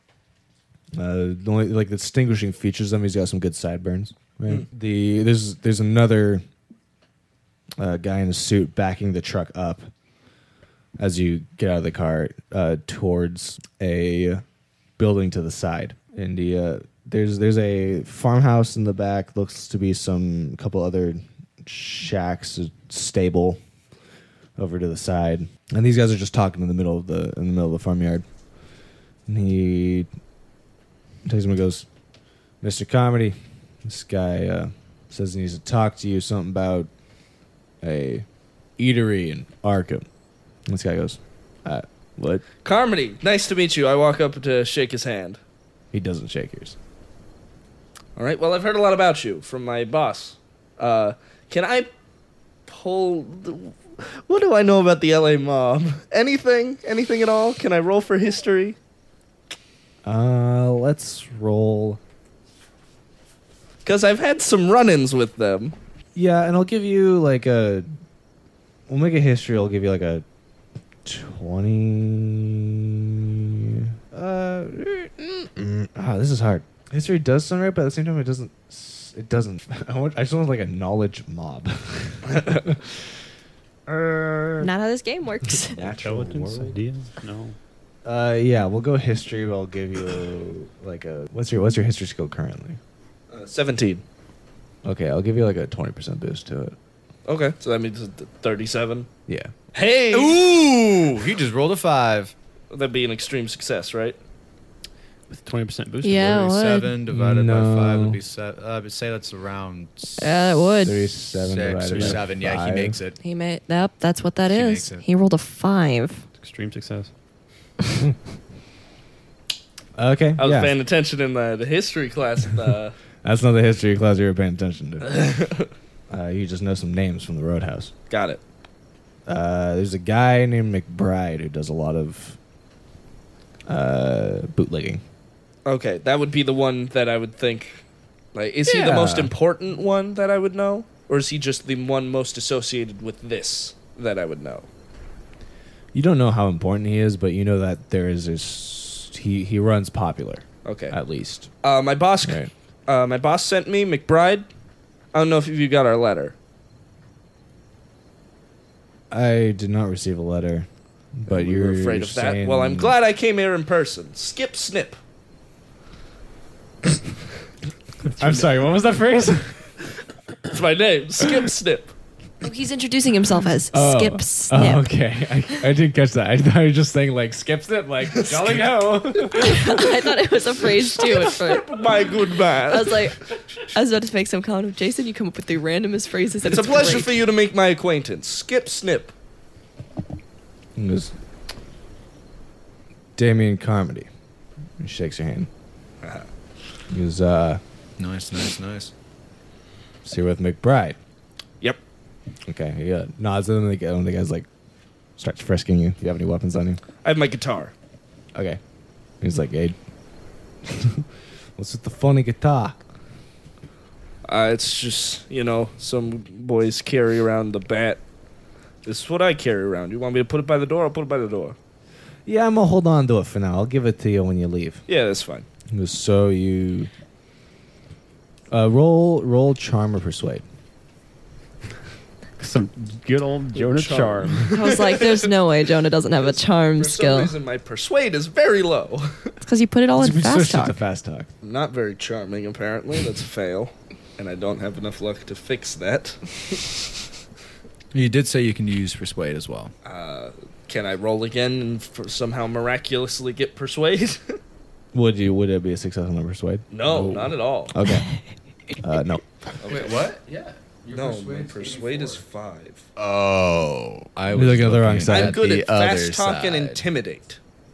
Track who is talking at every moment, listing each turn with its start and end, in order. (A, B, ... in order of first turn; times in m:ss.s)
0:01.0-0:06.4 A
0:07.8-0:09.9 A
0:11.0-0:14.4 A
0:15.0-0:23.6 A
0:24.6-0:28.2 A
0:29.3-0:30.1 A
0:31.2-0:31.8 A
0:32.6-0:36.9 A
0:37.8-0:38.2 A
0:38.8-0:40.0 A
0:40.7-0:42.4 A
0:42.6-0:45.4 B
0:45.9-0:46.8 A
0:48.2-0:51.9 B
0:52.7-0:58.8 B
1:00.0-1:02.0 A
1:03.8-1:05.7 B
1:06.1-1:07.9 A
1:08.9-1:10.2 A
1:11.0-1:22.8 A
1:22.3-1:22.6 B
1:23.9-1:24.7 B
1:24.6-1:25.9 C
1:25.7-1:26.8 A
1:25.8-1:27.6 D
1:28.0-1:32.8 A
1:33.3-1:34.0 B
1:34.8-1:36.8 A
1:37.2-1:39.1 B
1:39.3-1:39.5 A
1:39.7-1:40.4 B
1:40.1-1:42.3 E
1:42.7-1:44.2 B
1:45.3-1:46.3 D
1:46.0-1:46.9 C
1:46.2-1:50.5 E
1:47.1-1:48.2 A
1:50.2-1:51.1 C
1:50.8-1:53.0 A
1:51.3-1:53.2 E
1:51.9-1:52.2 D
1:53.2-1:56.2 C
1:54.5-1:55.0 E
1:56.4-1:57.1 D
2:00.0-2:00.7 A
2:00.4-2:03.0 B
2:03.2-2:05.1 A
2:05.0-2:05.7 B
2:06.1-2:07.9 A
2:08.1-2:08.4 B
2:09.2-2:12.4 A
2:13.7-2:15.0 A
2:15.6-2:17.8 B
2:18.3-2:24.6 B
2:18.6-2:19.3 A
2:25.9-2:31.5 A
2:30.6-2:31.0 B
2:31.6-2:34.5 B
2:32.2-2:32.5 A
2:35.1-2:36.3 B
2:39.1-2:43.0 A
2:41.3-2:45.0 B
2:48.2-2:49.6 A
2:50.5-2:51.9 B
2:52.4-2:54.9 C
2:53.7-3:00.1 A
2:58.1-2:59.3 B
2:59.3-3:01.8 C
3:00.9-3:03.1 B
3:02.7-3:07.2 C
3:06.4-3:09.1 B
3:10.8-3:11.1 A
3:13.2-3:14.1 A
3:14.8-3:15.5 A
3:16.0-3:16.3 B
3:16.9-3:17.6 A
3:18.0-3:18.9 E
3:20.0-3:21.0 A
3:22.4-3:24.5 A
3:25.2-3:26.8 A
3:27.0-3:27.7 B
3:28.3-3:28.6 A
3:29.2-3:29.8 A
3:30.6-3:31.0 A
3:31.6-3:32.8 A
3:34.3-3:38.0 B
3:38.8-3:41.6 B
3:42.2-3:44.8 A
3:44.9-3:45.5 B
3:45.7-3:46.9 A
3:48.5-3:50.4 A
3:52.4-3:54.5 D
3:53.5-3:55.3 B
3:54.5-3:57.3 C
3:56.2-3:59.4 B
3:59.4-4:00.8 C
3:59.9-4:01.3 A
4:01.4-4:06.6 B
4:07.9-4:09.7 E
4:09.8-4:14.4 B
4:14.9-4:18.1 A
4:16.7-4:17.7 B
4:16.9-4:17.2 E
4:18.8-4:19.2 A
4:19.6-4:20.0 B
4:19.6-4:22.2 E
4:20.9-4:22.8 B
4:23.0-4:26.8 E
4:24.3-4:25.4 A
4:25.1-4:27.4 B